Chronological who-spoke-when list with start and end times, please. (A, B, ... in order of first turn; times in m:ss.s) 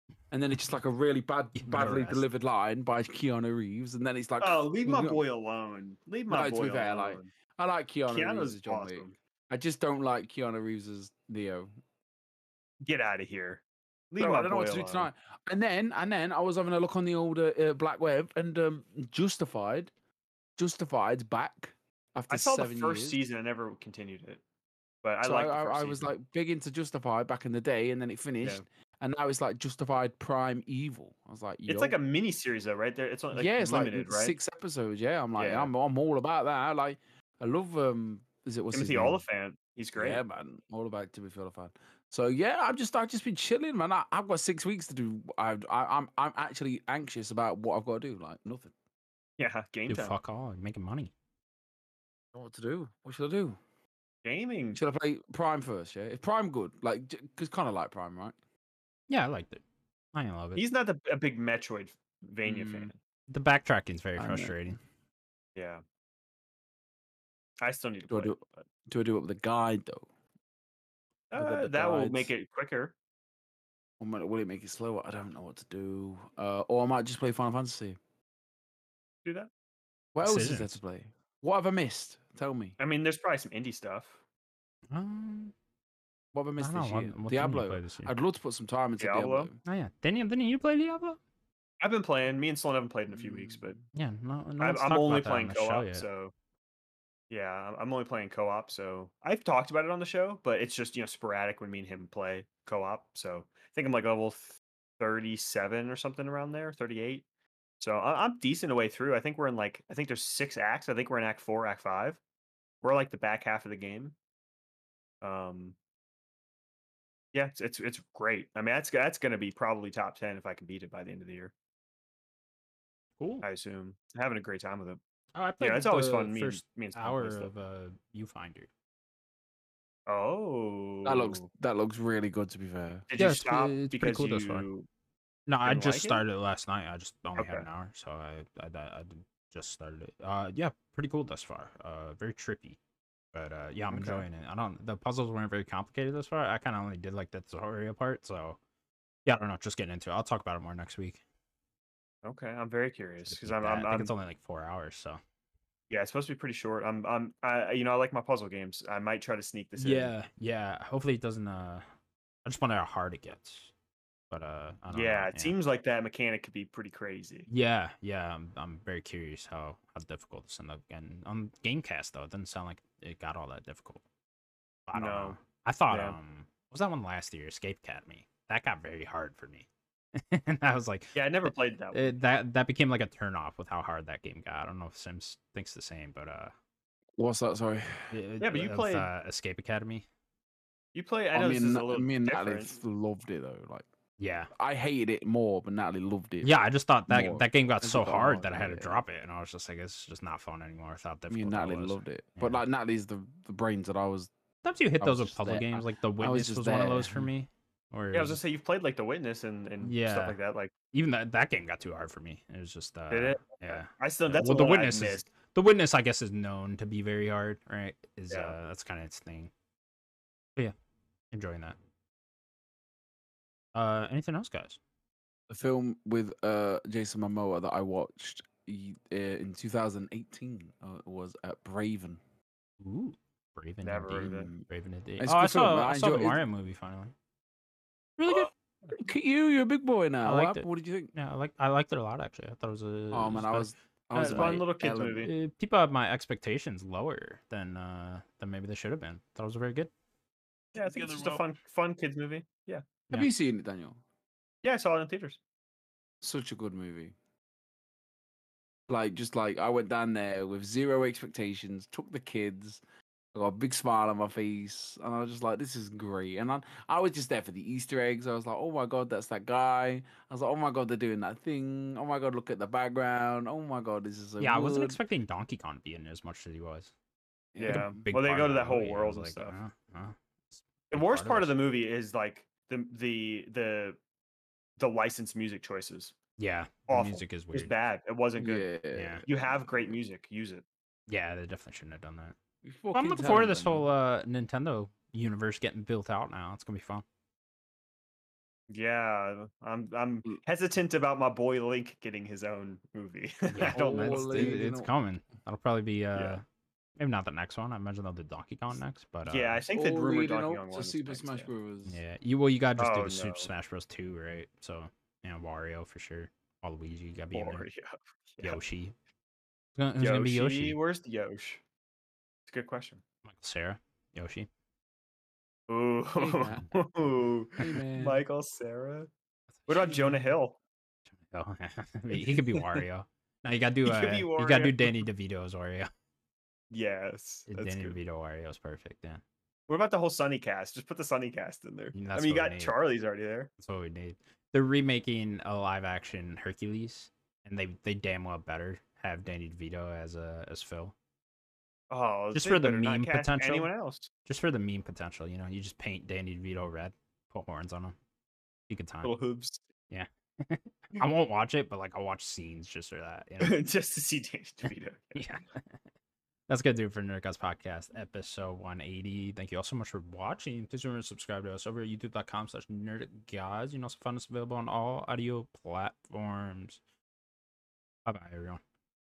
0:00.3-0:05.2 A
0:01.6-0:02.2 B
0:04.4-0:07.3 C
0:06.3-0:11.7 A
0:08.1-0:09.1 C
0:12.8-0:15.1 C
0:14.2-0:19.9 A
0:20.6-0:23.2 A
0:22.3-0:24.4 C
0:25.0-0:26.0 C
0:25.2-0:32.0 A
0:31.7-0:34.4 C
0:33.3-0:39.2 A
0:35.4-0:35.7 C
0:38.7-0:40.2 C
0:40.0-0:48.7 A
0:49.4-0:50.1 C
0:49.9-0:51.1 B
0:52.3-0:53.6 A
0:54.2-0:54.8 C
0:54.8-0:58.3 A
0:59.1-1:00.6 B
1:00.6-1:03.0 C
1:02.4-1:02.9 A
1:03.3-1:04.8 B
1:04.2-1:04.8 A
1:05.6-1:05.8 C
1:07.6-1:08.4 C
1:08.1-1:10.1 A
1:11.3-1:12.9 C
1:11.3-1:12.3 A
1:14.0-1:18.0 A
1:19.2-1:19.5 C
1:20.1-1:22.8 A
1:20.2-1:20.7 B
1:22.8-1:24.2 C
1:24.9-1:25.5 B
1:26.3-1:29.6 A
1:26.6-1:28.1 B
1:29.0-1:29.5 C
1:29.6-1:31.2 B
1:31.8-1:33.8 C
1:33.2-1:33.7 A
1:33.9-1:36.0 B
1:34.6-1:36.3 C
1:37.3-1:47.2 C
1:47.8-1:52.2 C
1:52.8-1:54.1 C
1:55.2-1:55.8 C
1:57.3-2:01.5 C
2:03.2-2:03.4 B
2:03.4-2:05.0 C
2:05.3-2:08.7 B
2:05.6-2:07.5 C
2:10.1-2:11.4 C
2:11.0-2:13.1 A
2:13.1-2:14.9 C
2:13.2-2:14.7 B
2:15.5-2:22.8 B
2:15.6-2:16.2 C
2:17.4-2:17.6 C
2:23.3-2:28.6 B
2:23.9-2:24.2 C
2:29.2-2:31.2 B
2:32.2-2:34.1 C
2:33.3-2:35.2 B
2:35.9-2:40.1 C
2:39.8-2:41.8 B
2:42.4-2:43.7 B
2:44.3-2:45.5 B
2:44.9-2:47.5 C
2:47.5-2:54.0 B
2:54.9-3:06.5 B
2:54.9-2:55.4 C
2:55.9-2:56.2 C
3:01.1-3:02.2 C
3:07.2-3:08.1 A
3:08.1-3:10.0 B
3:08.4-3:09.1 C
3:10.9-3:12.7 C
3:11.3-3:13.8 A
3:14.2-3:14.5 B
3:14.5-3:19.0 A
3:16.4-3:22.6 B
3:21.3-3:24.3 A
3:24.6-3:28.4 B
3:25.0-3:27.3 A
3:28.1-3:30.7 C
3:29.8-3:30.4 B
3:30.9-3:39.5 B
3:33.1-3:35.2 C
3:38.3-3:38.5 C
3:41.3-3:41.8 B
3:43.7-3:44.8 B
3:45.5-3:52.2 A
3:52.8-3:57.1 B
3:53.8-3:54.5 C
3:54.3-3:54.6 A
3:55.2-3:56.4 A
3:58.2-3:58.5 B
3:58.3-4:01.1 A
4:00.2-4:04.6 B
4:03.1-4:05.3 A
4:04.2-4:05.3 C
4:05.2-4:09.9 B
4:10.7-4:12.9 C
4:10.8-4:11.4 A
4:13.1-4:14.0 A
4:14.6-4:15.4 C
4:16.2-4:17.1 A
4:18.9-4:22.8 A
4:23.3-4:35.0 A
4:34.4-4:36.9 B
4:37.5-4:38.0 A
4:37.6-4:39.5 C
4:37.6-4:41.5 B
4:40.9-4:44.0 C
4:44.8-4:46.2 C
4:46.4-4:47.7 B
4:46.9-4:48.7 C
4:48.4-4:49.2 A
4:48.9-4:49.2 B
4:49.2-4:50.6 C
4:51.1-4:52.4 B
4:52.6-4:53.9 A
4:52.9-4:57.0 B
4:58.7-5:04.6 C
5:03.5-5:06.4 B
5:03.7-5:04.9 A
5:06.1-5:06.4 C
5:07.0-5:09.6 B
5:09.3-5:11.5 C
5:09.7-5:12.0 A
5:11.8-5:17.6 B
5:12.8-5:13.5 C
5:17.3-5:18.6 C
5:18.4-5:19.0 B
5:19.8-5:20.8 B
5:20.0-5:21.6 C
5:22.5-5:23.0 C
5:23.2-5:24.5 B
5:25.7-5:29.1 C
5:26.2-5:26.6 A
5:27.6-5:28.2 A
5:29.6-5:30.0 B
5:29.7-5:30.6 C
5:31.1-5:35.9 B
5:33.8-5:35.0 C
5:36.7-5:38.0 C
5:37.5-5:39.2 B
5:39.7-5:43.5 C
5:41.9-5:42.8 B
5:43.6-5:50.9 B
5:51.9-5:54.1 C
5:52.3-5:53.7 B
5:54.2-5:57.9 B
5:58.7-5:59.1 B
5:59.0-5:59.6 C
5:59.9-6:03.6 B
6:03.4-6:05.2 C
6:04.7-6:05.7 B
6:06.5-6:16.8 B
6:18.0-6:18.6 B